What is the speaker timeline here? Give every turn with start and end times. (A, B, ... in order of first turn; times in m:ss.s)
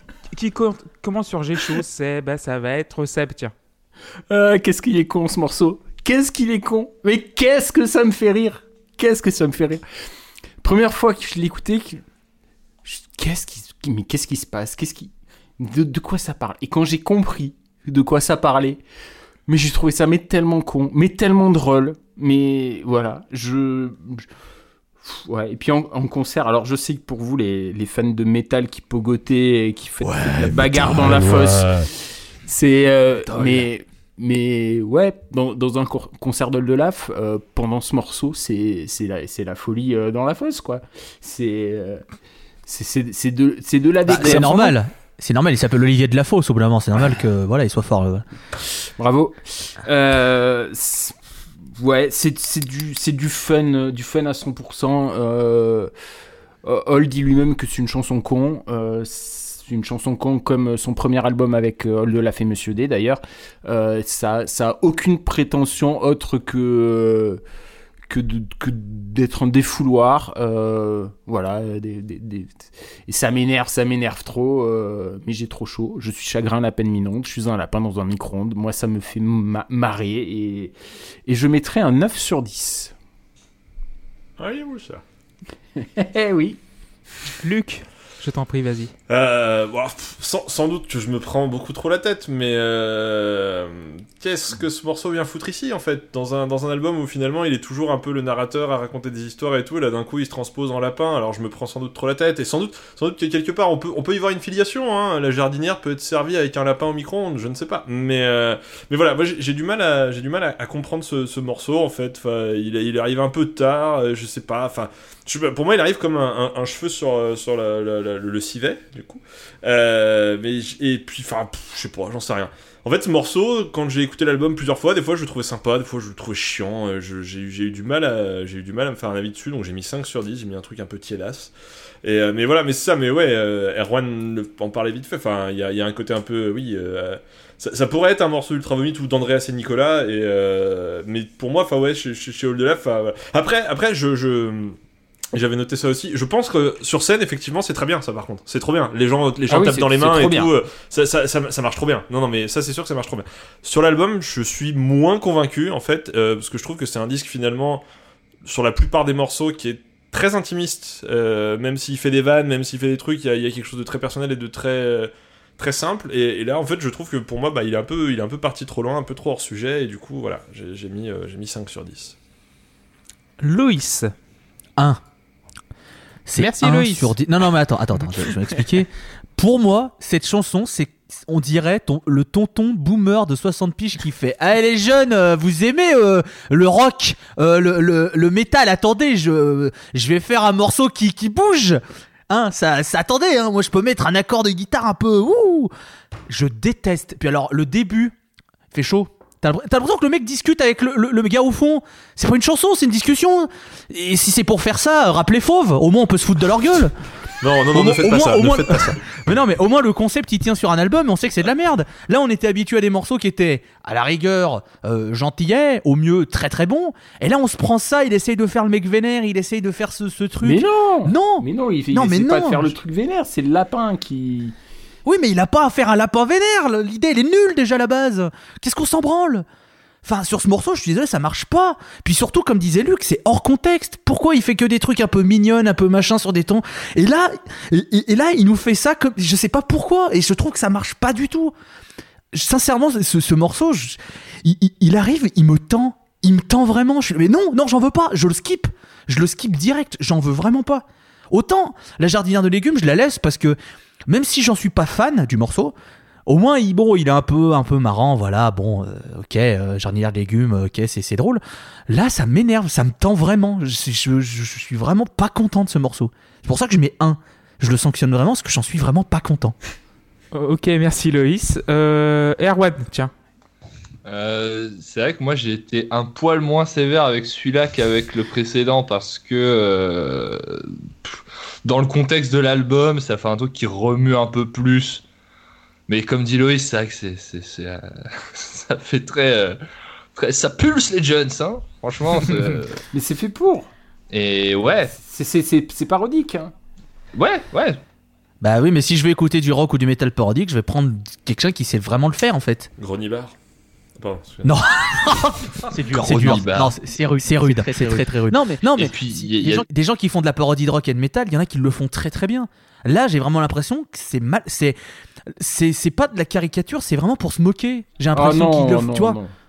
0:00.3-0:03.5 A
0:04.3-0:09.8 B
0:10.6-0:12.0 B
0:12.8-0:18.8 B
0:19.5-0:24.3 B
0:25.0-0:42.0 B
0:30.0-0:31.9 C
0:42.6-0:44.8 B
0:44.0-0:48.2 D
0:49.0-0:55.9 B
0:56.6-1:07.4 B
1:08.1-1:20.7 B
1:21.2-1:22.9 B
1:24.4-1:25.0 C
1:25.8-1:26.6 B
1:27.4-1:28.9 A
1:29.1-2:11.5 C
2:12.0-2:24.8 C
2:25.3-2:37.8 C
2:29.5-2:30.5 B
2:38.4-2:52.2 C
2:53.4-2:54.1 A
2:56.2-3:15.7 D
2:56.4-2:57.1 A
3:16.3-3:18.1 D
3:18.7-3:26.9 D
3:27.4-3:29.2 C
3:27.7-3:42.7 D
3:40.4-3:44.5 B
3:45.0-3:49.4 D
3:50.0-4:01.5 D
4:02.3-4:15.7 D
4:16.2-4:29.6 D
4:30.3-4:33.1 A
4:34.0-4:45.0 E
4:45.9-4:49.6 E
4:50.2-4:52.8 E
4:52.9-4:53.7 B
4:54.1-4:54.9 E
4:55.0-4:56.5 B
4:57.1-4:57.8 E
4:58.4-5:02.7 D
5:02.8-5:03.3 C
5:04.0-5:04.6 C
5:04.4-5:19.2 D
5:05.9-5:06.7 E
5:08.7-5:09.6 E
5:18.1-5:19.3 B